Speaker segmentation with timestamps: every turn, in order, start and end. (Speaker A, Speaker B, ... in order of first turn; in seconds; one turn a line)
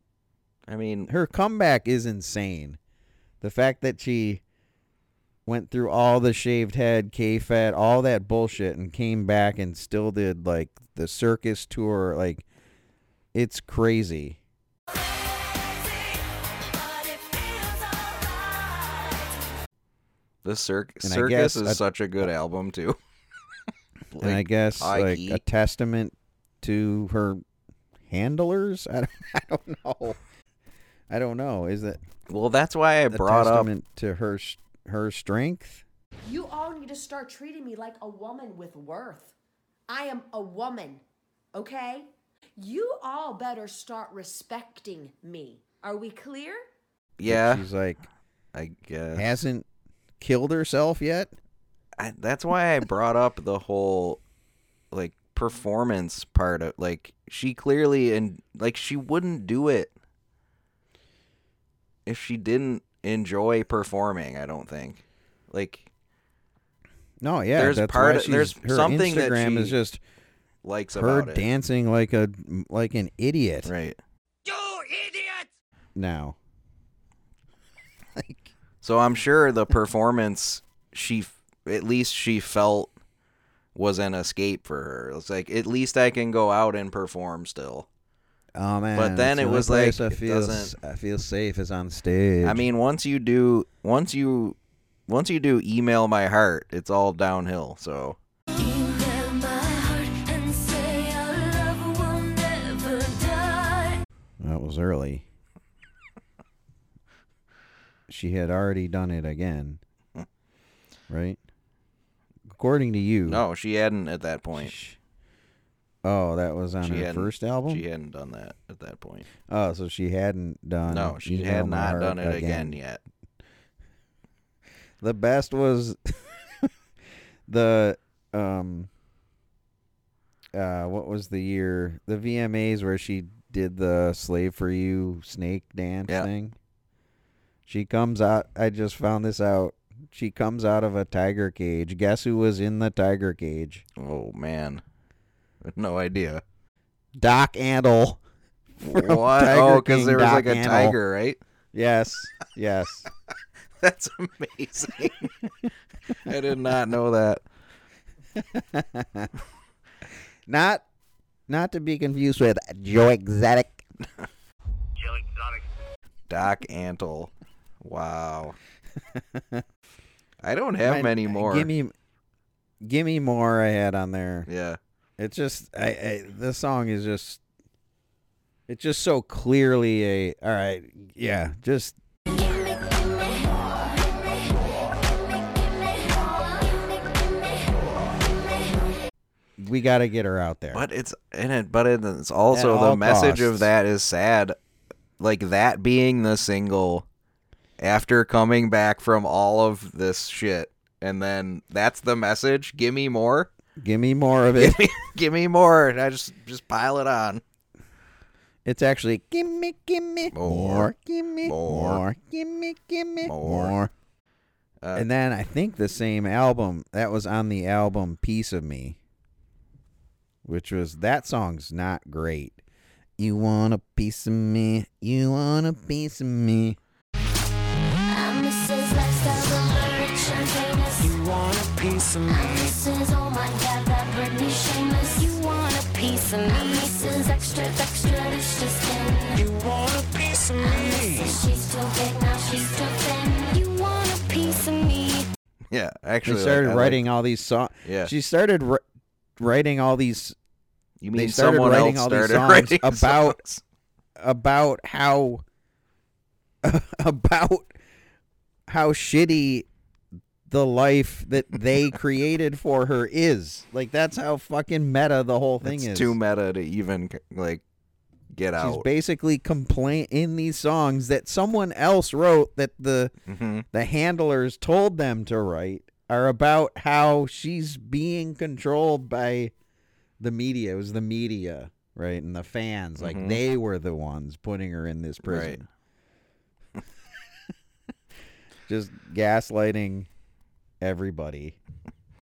Speaker A: 0.7-1.1
Speaker B: 1.1-2.8
Speaker B: 3.4-4.4
Speaker B: 5.5-12.4
Speaker B: 13.3-14.4
Speaker C: 16.8-18.3
Speaker A: 20.4-23.0
Speaker B: 21.0-22.2
Speaker B: 24.1-27.4
Speaker A: 24.2-25.4
Speaker B: 28.1-30.2
Speaker B: 31.1-32.0
Speaker A: 32.3-33.7
Speaker B: 33.1-35.8
Speaker D: 36.2-39.3
Speaker D: 39.9-41.0
Speaker D: 41.5-46.6
Speaker A: 47.2-47.6
Speaker B: 47.2-48.0
Speaker A: 48.5-49.2
Speaker B: 49.1-49.7
Speaker B: 50.2-51.3
Speaker A: 52.0-54.2
Speaker A: 54.9-59.9
Speaker A: 62.0-65.8
Speaker B: 67.2-70.0
Speaker A: 67.5-69.8
Speaker A: 70.6-71.5
Speaker B: 70.9-73.7
Speaker A: 73.6-74.0
Speaker B: 75.9-76.4
Speaker B: 78.2-78.5
Speaker A: 78.8-82.9
Speaker A: 83.7-87.9
Speaker B: 88.5-92.6
Speaker A: 88.9-90.8
Speaker A: 92.4-94.5
Speaker A: 95.1-98.2
Speaker C: 98.6-104.0
Speaker B: 104.4-105.2
Speaker B: 108.1-109.8
Speaker B: 111.1-111.4
Speaker B: 112.5-113.4
Speaker A: 113.3-114.7
Speaker B: 114.5-115.0
Speaker B: 116.0-117.8
Speaker A: 116.8-119.3
Speaker B: 119.5-122.8
Speaker A: 120.9-123.0
Speaker B: 125.0-126.7
Speaker B: 127.5-128.9
Speaker B: 130.5-136.5
Speaker B: 137.7-143.8
Speaker A: 144.0-144.8
Speaker A: 145.6-146.4
Speaker B: 147.2-148.2
Speaker B: 148.8-150.9
Speaker A: 148.9-151.4
Speaker B: 151.7-153.0
Speaker A: 153.8-155.3
Speaker A: 156.2-157.4
Speaker B: 158.4-159.3
Speaker B: 160.5-160.8
Speaker B: 161.5-163.8
Speaker A: 166.3-167.3
Speaker A: 167.8-168.6
Speaker B: 169.1-169.6
Speaker A: 170.4-171.7
Speaker B: 170.8-171.9
Speaker B: 172.8-174.5
Speaker A: 174.5-174.8
Speaker B: 175.2-177.4
Speaker B: 178.7-182.0
Speaker B: 189.6-190.8
Speaker A: 190.7-194.6
Speaker B: 192.5-193.7
Speaker A: 195.2-197.1
Speaker A: 197.8-203.5
Speaker B: 203.8-204.8
Speaker A: 204.6-207.4
Speaker B: 208.6-213.9
Speaker A: 210.3-212.0
Speaker A: 213.2-213.7
Speaker A: 214.8-215.1
Speaker B: 214.9-219.0
Speaker B: 220.4-222.6
Speaker B: 223.2-226.8
Speaker C: 228.1-231.2
Speaker C: 232.2-239.4
Speaker C: 240.2-245.3
Speaker A: 245.7-247.1
Speaker B: 246.2-248.8
Speaker A: 247.8-248.1
Speaker B: 249.4-250.3
Speaker A: 251.0-253.6
Speaker B: 251.1-253.4
Speaker B: 254.2-255.4
Speaker B: 256.6-257.7
Speaker B: 258.7-259.7
Speaker B: 260.5-266.2
Speaker A: 265.6-267.6
Speaker A: 268.3-268.9
Speaker B: 268.6-273.1
Speaker A: 273.3-273.6
Speaker B: 273.7-279.5
Speaker B: 280.2-285.7
Speaker A: 283.0-283.4
Speaker A: 285.2-285.6
Speaker B: 288.7-290.1
Speaker B: 290.8-291.6